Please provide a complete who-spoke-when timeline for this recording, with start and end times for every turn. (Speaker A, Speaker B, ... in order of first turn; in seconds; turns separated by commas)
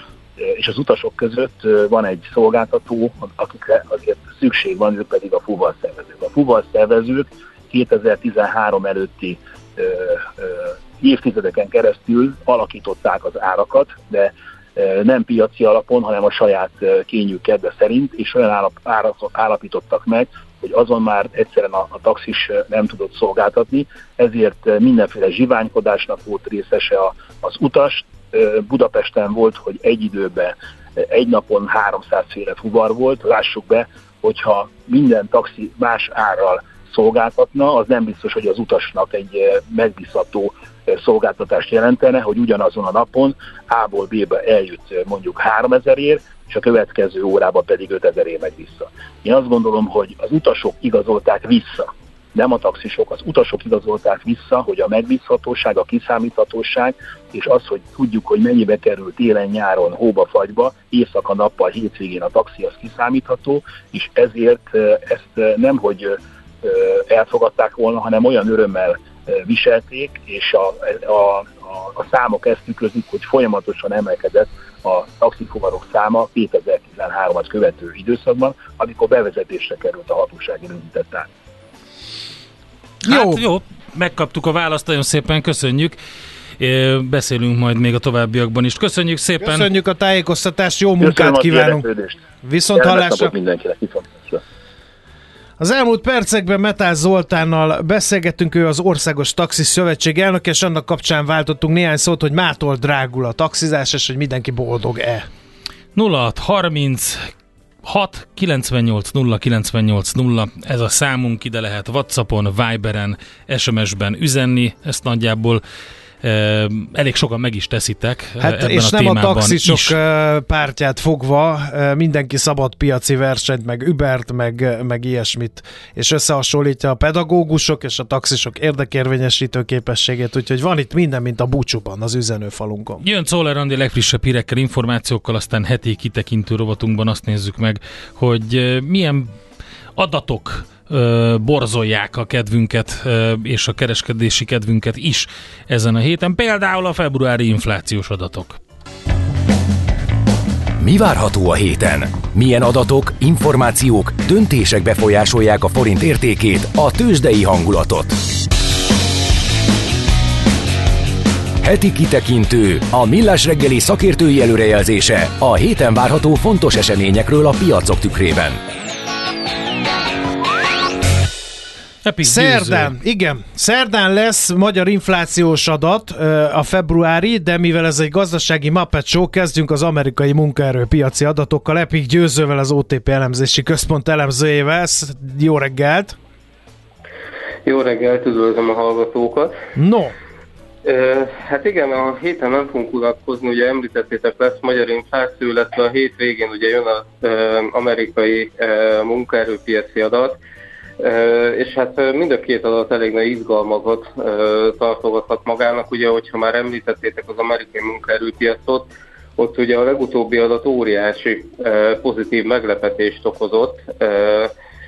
Speaker A: 0.4-81.3, Speaker B: 83.0-83.4, Speaker C: 83.0-86.0, Speaker C: 86.6-89.7, Speaker B: 89.4-91.8, Speaker A: 91.0-92.2, Speaker B: 92.4-93.3, Speaker A: 92.7-94.4, Speaker B: 95.6-105.3, Speaker C: 105.9-107.3, Speaker C: 107.8-115.6, Speaker C: 116.2-120.0, Speaker B: 118.4-133.0, Speaker C: 133.0-139.3, Speaker C: 140.0-148.6, Speaker D: 150.8-158.2, Speaker D: 161.6-168.6, Speaker C: 172.0-172.9, Speaker B: 172.2-186.2, Speaker E: 187.6-189.5, Speaker B: 189.8-190.1, Speaker E: 190.8-200.4, Speaker E: 201.0-214.5